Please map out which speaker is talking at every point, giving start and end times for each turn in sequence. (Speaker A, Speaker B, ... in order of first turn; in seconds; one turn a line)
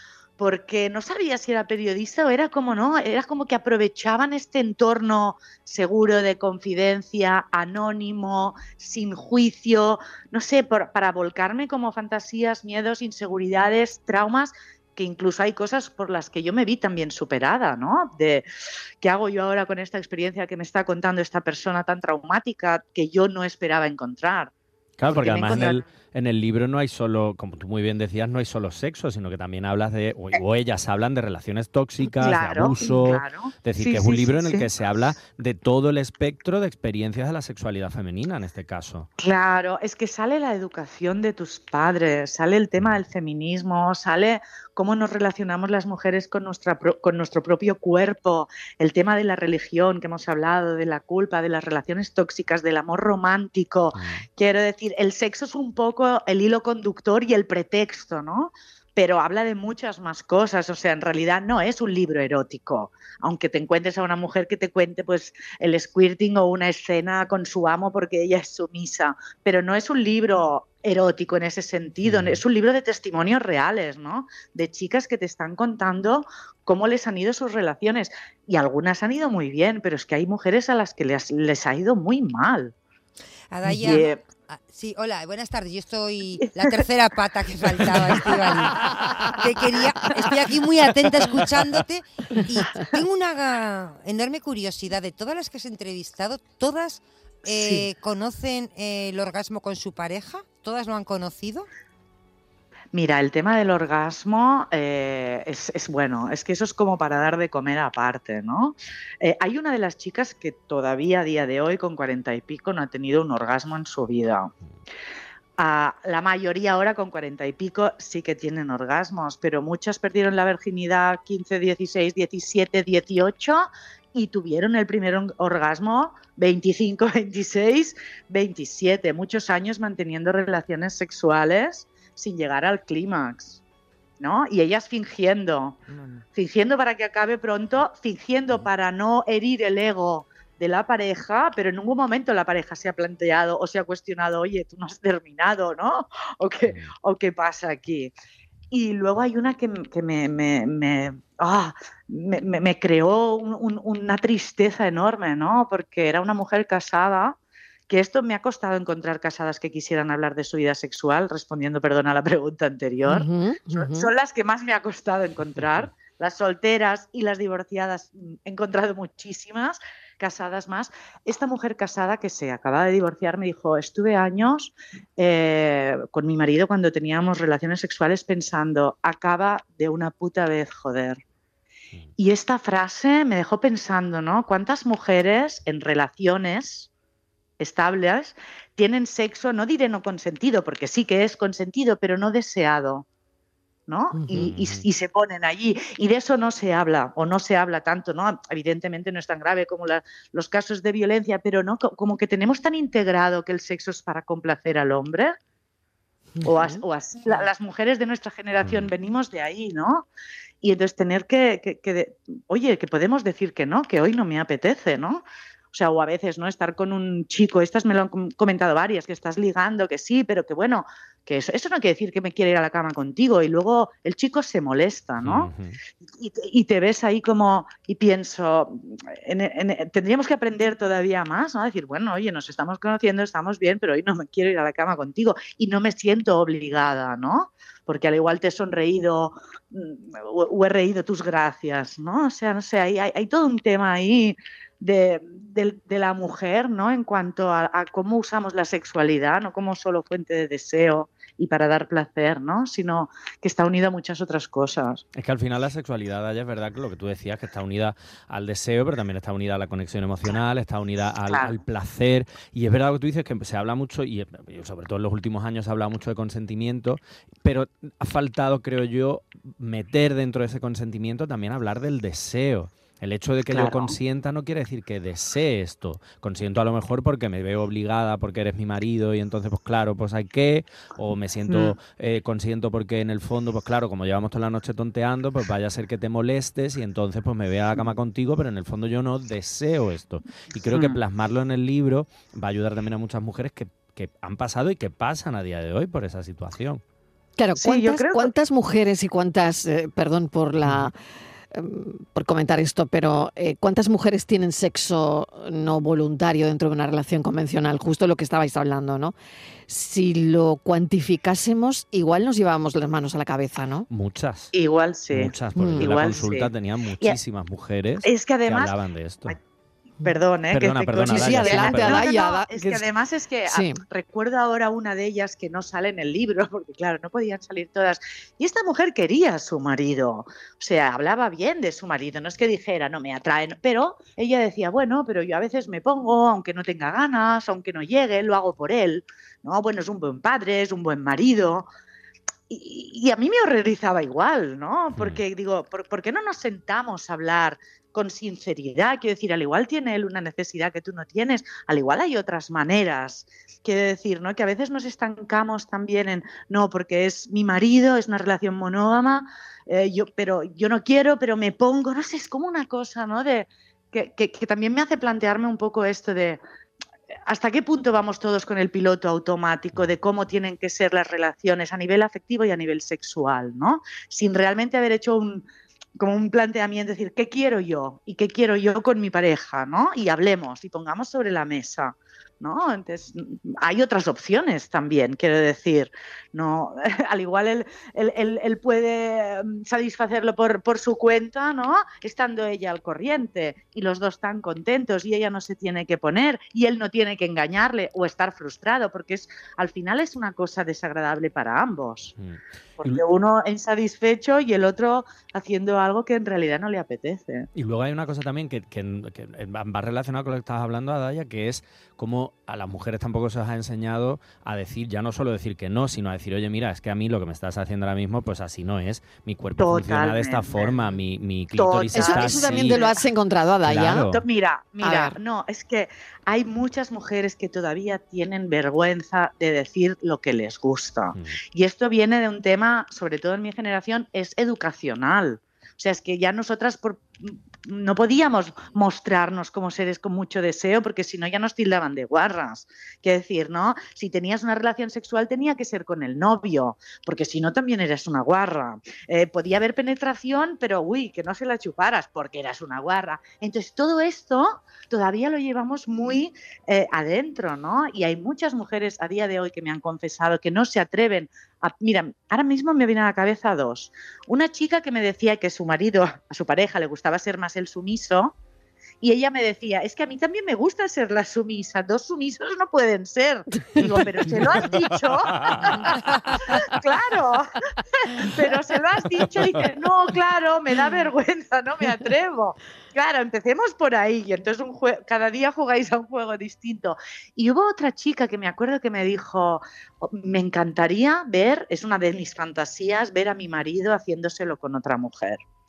Speaker A: 0.4-18.5
Speaker A: 19.0-24.5
Speaker B: 25.0-39.1
Speaker A: 25.1-25.8
Speaker A: 32.2-34.7
Speaker A: 39.2-82.7
Speaker B: 53.9-54.2
Speaker B: 72.0-72.4
Speaker C: 83.5-101.7
Speaker A: 83.8-84.2
Speaker A: 102.9-114.5
Speaker A: 115.6-133.6
Speaker A: 134.2-135.8
Speaker C: 135.9-136.2
Speaker A: 136.3-148.1
Speaker B: 146.7-146.9
Speaker A: 148.7-157.4
Speaker A: 157.9-181.2
Speaker D: 163.1-164.1
Speaker A: 182.2-186.9
Speaker A: 187.6-193.1
Speaker A: 193.9-205.3
Speaker B: 194.3-194.9
Speaker A: 206.4-210.1
Speaker B: 208.6-208.9
Speaker A: 210.6-225.5
Speaker B: 225.2-225.8
Speaker A: 226.2-255.0
Speaker B: 255.1-296.8
Speaker A: 261.3-261.6
Speaker A: 273.5-274.0
Speaker A: 281.5-281.8
Speaker A: 290.7-291.0
Speaker D: 297.4-300.9
Speaker A: 297.6-298.3
Speaker D: 301.5-309.1
Speaker D: 309.7-313.9
Speaker B: 313.9-314.5
Speaker A: 314.5-316.5
Speaker B: 315.1-319.4
Speaker D: 315.6-315.9
Speaker A: 318.0-318.8
Speaker A: 320.0-341.7
Speaker B: 320.5-322.1
Speaker D: 321.1-322.9
Speaker D: 323.5-323.8
Speaker A: 342.5-366.4
Speaker A: 367.3-375.5
Speaker A: 376.0-402.1
Speaker B: 402.2-403.0
Speaker A: 402.8-407.5
Speaker B: 407.6-422.8
Speaker A: 419.6-420.9
Speaker A: 421.6-423.0
Speaker D: 421.9-424.1
Speaker B: 423.6-424.2
Speaker A: 424.1-468.3
Speaker D: 424.8-425.2
Speaker A: 469.0-495.4
Speaker B: 475.5-475.7